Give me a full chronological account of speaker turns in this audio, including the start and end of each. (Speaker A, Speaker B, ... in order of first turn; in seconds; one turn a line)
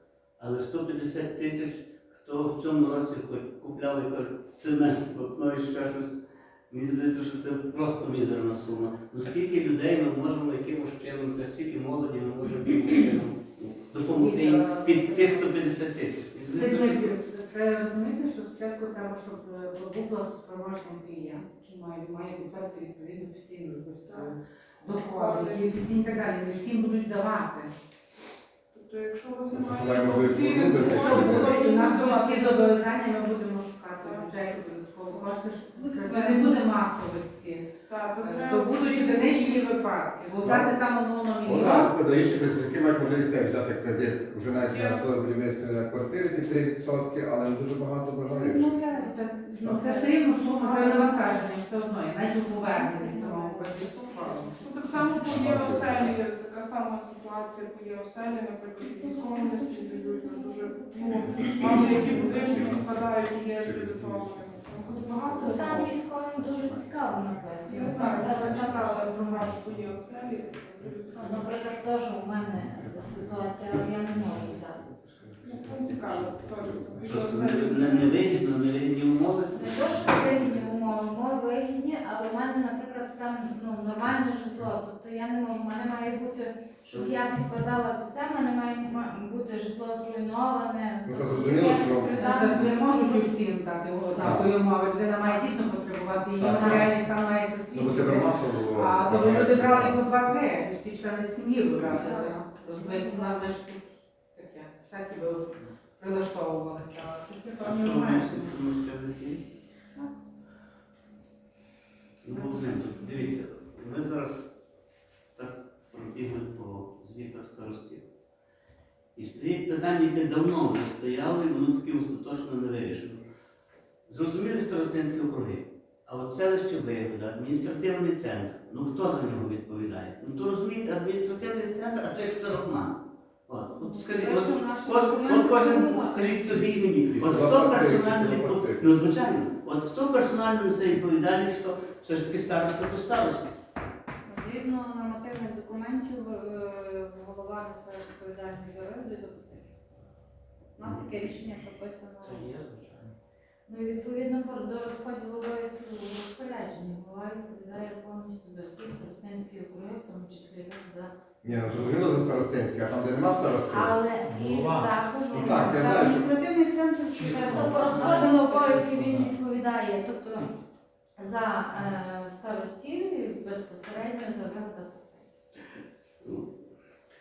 Speaker A: 0.4-6.2
Speaker A: 6.7-17.2
Speaker B: 14.1-15.5
Speaker B: 16.5-27.7
Speaker C: 24.1-25.8
Speaker C: 28.7-32.5
Speaker D: 29.5-31.6
Speaker B: 30.6-42.0
Speaker C: 34.0-34.6
Speaker E: 35.8-36.6
Speaker C: 37.9-39.8
Speaker D: 40.4-40.7
Speaker D: 41.4-48.8
Speaker C: 44.7-45.1
Speaker E: 48.3-51.3
Speaker B: 48.9-54.6
Speaker E: 52.6-54.8
Speaker C: 54.6-66.0
Speaker D: 55.3-56.2
Speaker E: 58.8-62.8
Speaker D: 61.4-67.2
Speaker F: 61.7-62.6
Speaker F: 65.3-69.6
Speaker C: 67.6-71.8
Speaker D: 67.8-70.0
Speaker D: 70.8-71.4
Speaker F: 71.2-74.9
Speaker D: 72.5-77.3
Speaker C: 75.4-78.2
Speaker A: 77.0-80.7
Speaker F: 79.5-93.0
Speaker A: 86.9-87.3
Speaker D: 91.0-92.7
Speaker B: 92.2-108.6
Speaker D: 94.2-94.5
Speaker D: 96.4-96.9
Speaker F: 96.5-96.9
Speaker D: 97.7-100.1
Speaker E: 101.9-102.3
Speaker C: 101.9-103.4
Speaker E: 102.8-103.2
Speaker A: 107.6-109.5
Speaker A: 112.2-114.5
Speaker A: 115.4-118.0
Speaker A: 119.2-123.2
Speaker A: 124.1-133.0
Speaker A: 133.5-143.5
Speaker E: 133.8-136.2
Speaker D: 137.2-138.8
Speaker E: 144.2-149.7
Speaker E: 150.8-152.5
Speaker G: 152.2-153.1
Speaker F: 153.7-161.1
Speaker D: 161.4-164.1
Speaker F: 163.7-166.2
Speaker G: 164.2-165.0
Speaker D: 165.3-166.2
Speaker E: 165.4-168.9
Speaker G: 167.1-169.3
Speaker F: 167.3-170.5
Speaker F: 171.2-175.3
Speaker A: 176.2-176.5